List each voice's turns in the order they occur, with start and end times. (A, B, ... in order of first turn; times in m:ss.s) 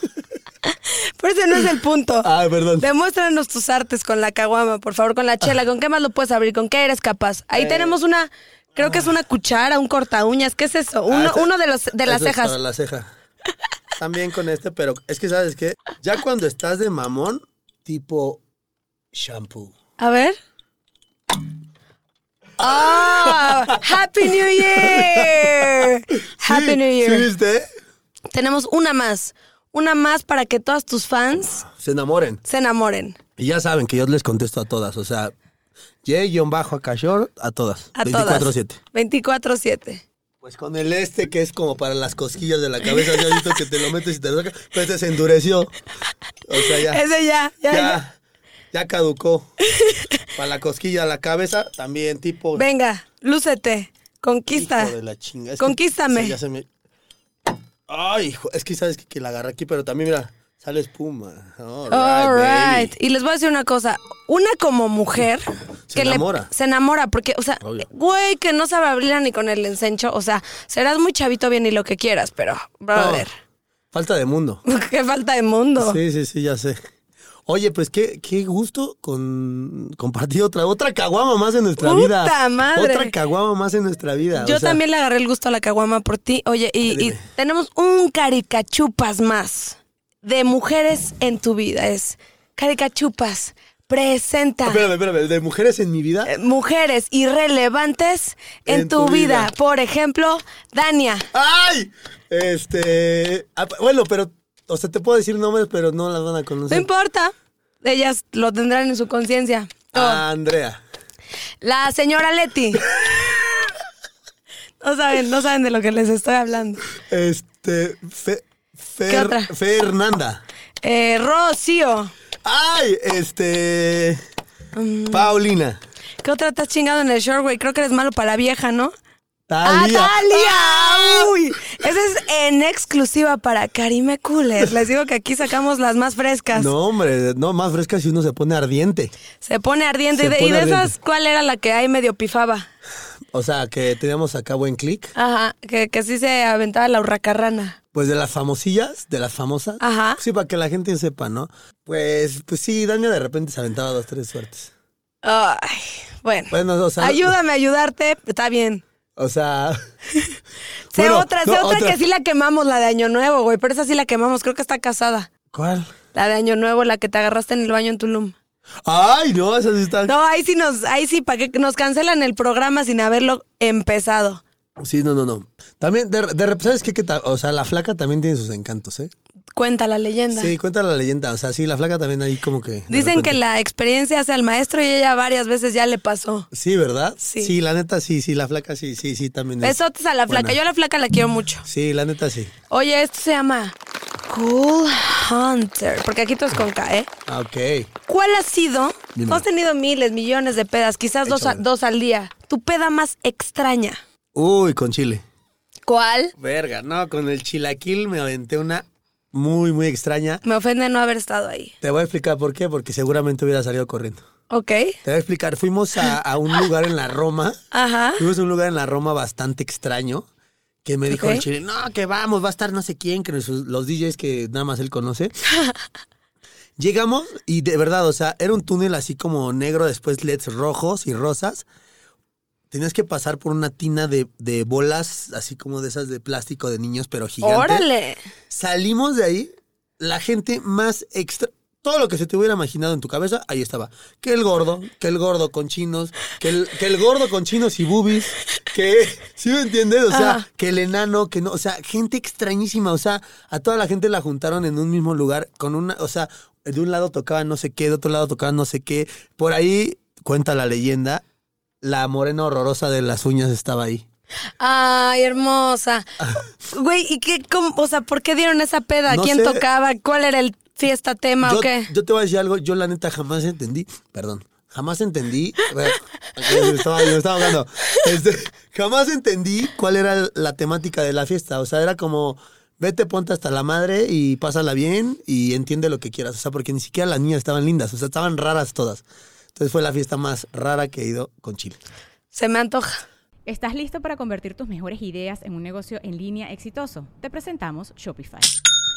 0:00.6-0:12.6 A
0:02.2-0:02.9 B
0:07.5-0:08.0 B
0:08.8-0:09.1 B
0:11.1-0:11.5 B
0:12.0-0:13.1 B
0:14.0-0:18.4 B
0:19.1-0:19.7 B
0:20.0-0:20.4 A
0:22.6-0:23.8 B
0:22.6-0:27.3 A
0:24.5-0:25.9 B
0:26.4-0:27.7 B
0:28.3-0:31.7 A
0:31.7-0:32.4 B
0:32.5-0:33.2 A
0:33.4-0:35.3 B
0:36.0-0:38.8 B
0:38.0-0:40.0 A
0:40.4-0:45.7 B
0:43.0-0:43.4 A
0:46.5-0:47.0 B
0:46.6-0:48.0 A
0:47.7-0:48.2 B
0:48.7-0:49.5 B
0:49.7-0:50.2 A
0:50.4-0:52.6 B
0:52.5-0:54.9 A
0:54.5-0:56.7 B
0:55.6-0:56.4 A
0:57.9-1:02.9 B
1:01.9-1:13.3 A
1:05.9-1:06.5 B
1:12.9-1:13.2 B
1:13.9-1:14.6 B
1:14.6-1:16.0 A
1:15.8-1:16.8 B
1:17.5-1:24.8 B
1:21.8-1:23.1 A
1:24.4-1:34.8 A
1:26.9-1:27.2 B
1:34.6-1:36.3 B
1:36.2-1:41.3 A
1:38.7-1:39.5 B
1:41.3-1:46.9 B
1:46.7-1:50.2 A
1:49.9-1:50.8 B
1:51.6-1:53.0 A
1:52.9-1:53.5 B
1:54.8-1:56.8 A
1:57.0-2:00.4 B
1:59.1-1:59.5 A
2:00.8-2:02.1 A
2:02.4-2:04.2 B
2:04.7-2:05.3 A
2:05.1-2:05.8 B
2:06.2-2:08.9 A
2:09.5-2:11.3 B
2:09.6-2:16.7 A
2:16.5-2:19.1 B
2:19.4-2:22.7 A
2:20.1-2:20.9 B
2:23.3-2:25.1 B
2:25.2-2:27.8 A
2:27.9-2:34.7 B
2:29.8-2:30.2 A
2:35.2-2:38.8 A
2:36.5-2:37.3 B
2:39.2-2:39.8 B
2:40.9-2:45.3 A
2:40.9-2:42.0 B
2:45.5-2:45.9 B
2:46.1-2:48.3 A
2:48.8-2:50.1 B
2:50.1-2:54.4 A
2:54.8-2:59.1 B
2:59.5-3:00.5 A
3:00.3-3:03.4 B
3:02.9-3:06.5 A
3:06.5-3:10.6 B
3:07.2-3:07.5 A
3:09.6-3:11.6 A
3:11.6-3:12.5 B
3:12.7-3:13.7 A
3:14.3-3:17.1 A
3:17.3-3:17.9 B
3:18.1-3:24.0 A
3:19.1-3:19.4 B
3:21.2-3:21.6 B
3:24.3-3:25.2 B
3:25.9-3:26.3 A
3:26.4-3:30.4 B
3:30.4-3:31.7 A
3:31.8-3:34.2 B
3:34.5-3:35.0 A
3:35.0-3:37.6 B
3:37.7-3:38.2 A
3:38.2-3:40.3 B
3:40.8-3:45.3 B
3:41.1-3:41.4 A
3:46.8-3:51.7 B
3:52.7-3:57.8 B
3:57.4-3:58.2 A
3:58.5-4:21.2 B
4:10.1-4:10.4 A
4:21.8-4:24.0 B
4:24.6-4:26.1 A
4:26.7-4:31.9 A
4:29.1-4:29.6 B
4:31.4-4:49.0 B
4:49.5-4:51.8 B
4:52.3-4:53.0 A
4:53.4-4:58.5 C